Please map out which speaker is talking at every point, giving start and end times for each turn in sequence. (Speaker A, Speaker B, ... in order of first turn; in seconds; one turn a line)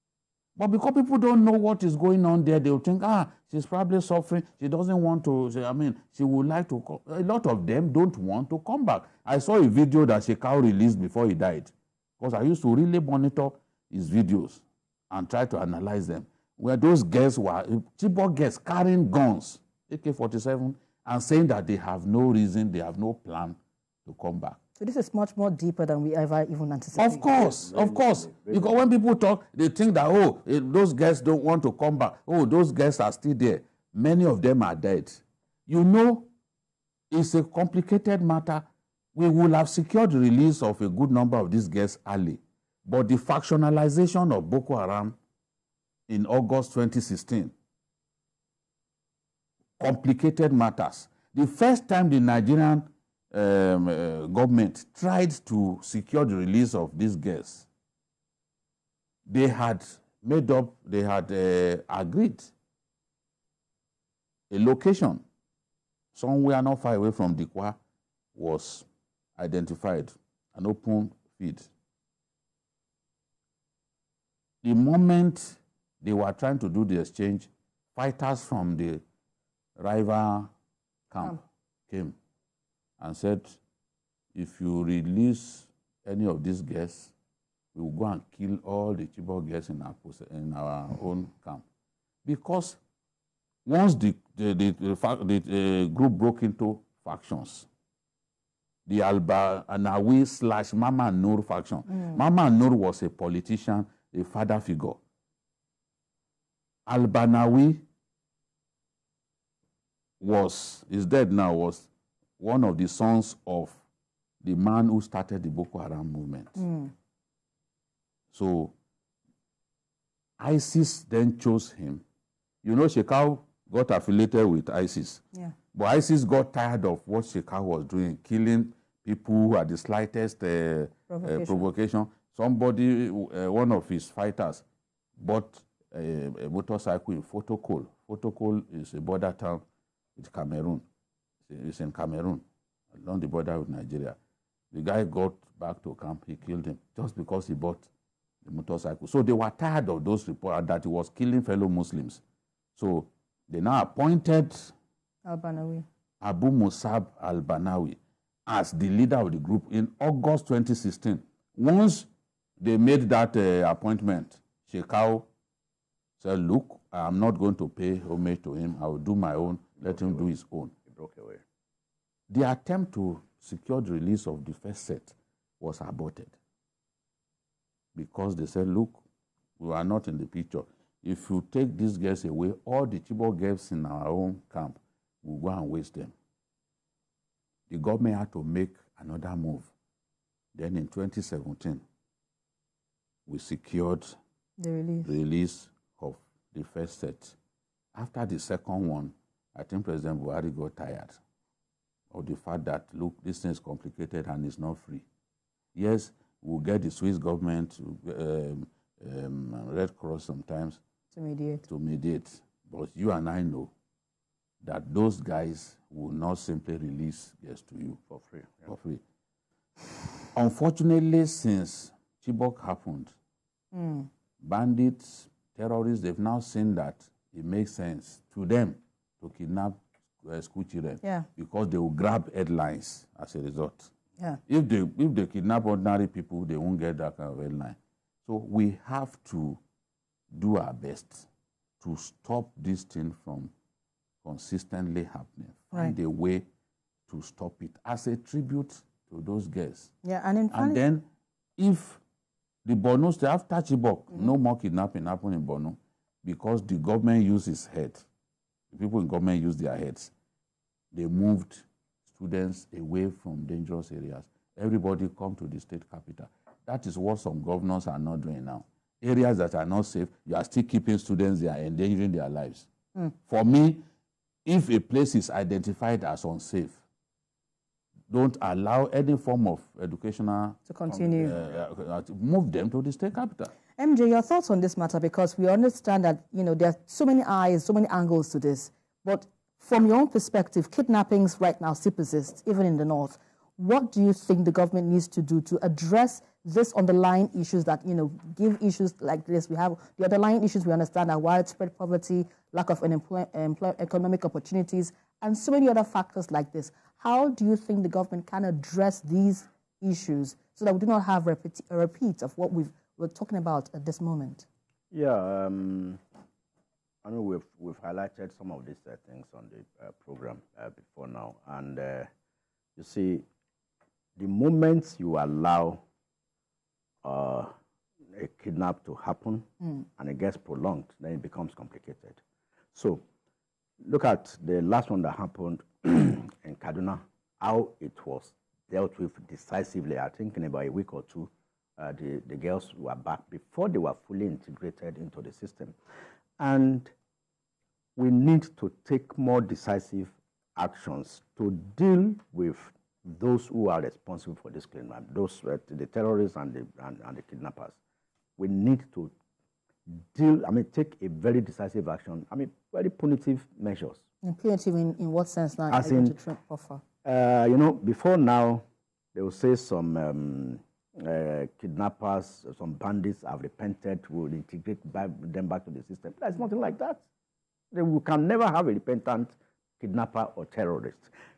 Speaker A: 0.6-24.6
Speaker B: 24.8-27.2
Speaker A: 26.9-36.3
Speaker C: 27.3-28.7
Speaker A: 37.1-38.6
Speaker A: 39.1-45.1
Speaker A: 46.1-47.5
Speaker A: 49.8-57.7
Speaker A: 59.3-62.5
Speaker A: 64.5-65.2
Speaker A: 66.1-67.8
Speaker A: 68.3-68.8
Speaker A: 69.4-71.7
Speaker A: 74.6-79.0
Speaker A: 79.8-80.5
Speaker A: 81.1-82.1
Speaker A: 83.0-83.6
Speaker A: 84.3-87.1
Speaker A: 87.7-91.6
Speaker A: 92.2-92.8
Speaker A: 93.7-97.7
Speaker A: 98.8-105.0
Speaker B: 101.9-102.2
Speaker A: 106.9-107.8
Speaker A: 110.2-111.9
Speaker A: 112.4-113.8
Speaker A: 114.4-116.6
Speaker B: 116.6-116.9
Speaker A: 118.3-118.7
Speaker A: 120.4-122.0
Speaker A: 122.6-125.2
Speaker A: 125.7-134.6
Speaker B: 131.1-131.7
Speaker A: 135.2-139.6
Speaker A: 140.2-140.8
Speaker A: 141.5-144.2
Speaker A: 144.7-147.9
Speaker A: 148.4-152.2
Speaker A: 152.8-154.7
Speaker B: 155.2-155.8
Speaker A: 156.2-162.1
Speaker A: 162.6-165.2
Speaker A: 166.2-170.7
Speaker C: 169.8-170.3
Speaker C: 170.9-171.4
Speaker A: 172.3-176.3
Speaker A: 177.9-179.0
Speaker A: 179.6-186.1
Speaker A: 187.7-189.7
Speaker A: 190.5-191.8
Speaker A: 193.3-194.2
Speaker B: 194.6-195.1
Speaker A: 195.0-197.3
Speaker A: 197.9-201.2
Speaker A: 202.1-205.0
Speaker A: 205.7-210.8
Speaker B: 211.1-211.6
Speaker A: 211.7-213.7
Speaker A: 214.6-218.0
Speaker C: 218.1-218.7
Speaker A: 218.7-219.0
Speaker A: 220.3-223.1
Speaker B: 223.7-224.1
Speaker A: 224.4-233.9
Speaker A: 234.5-239.6
Speaker A: 240.3-241.2
Speaker A: 241.8-243.5
Speaker A: 244.2-246.4
Speaker A: 247.1-249.9
Speaker B: 250.0-250.8
Speaker A: 250.5-251.1
Speaker A: 251.6-252.0
Speaker A: 252.6-258.1
Speaker A: 258.7-260.1
Speaker A: 260.9-272.7
Speaker A: 273.3-273.8
Speaker A: 274.4-276.8
Speaker A: 278.1-280.6
Speaker B: 280.7-281.4
Speaker C: 281.1-281.6
Speaker A: 281.2-283.5
Speaker B: 283.8-314.4
Speaker C: 314.9-316.0
Speaker C: 317.0-322.1
Speaker C: 322.8-323.2
Speaker C: 324.2-325.8
Speaker C: 327.0-327.5
Speaker C: 328.1-332.2
Speaker C: 332.7-333.0
Speaker C: 333.8-345.7
Speaker C: 346.4-346.9
Speaker C: 347.9-357.8
Speaker C: 358.4-359.1
Speaker C: 359.9-364.0
Speaker B: 364.2-366.8
Speaker C: 365.7-366.1
Speaker C: 367.0-368.6
Speaker C: 369.1-377.0
Speaker C: 377.7-381.1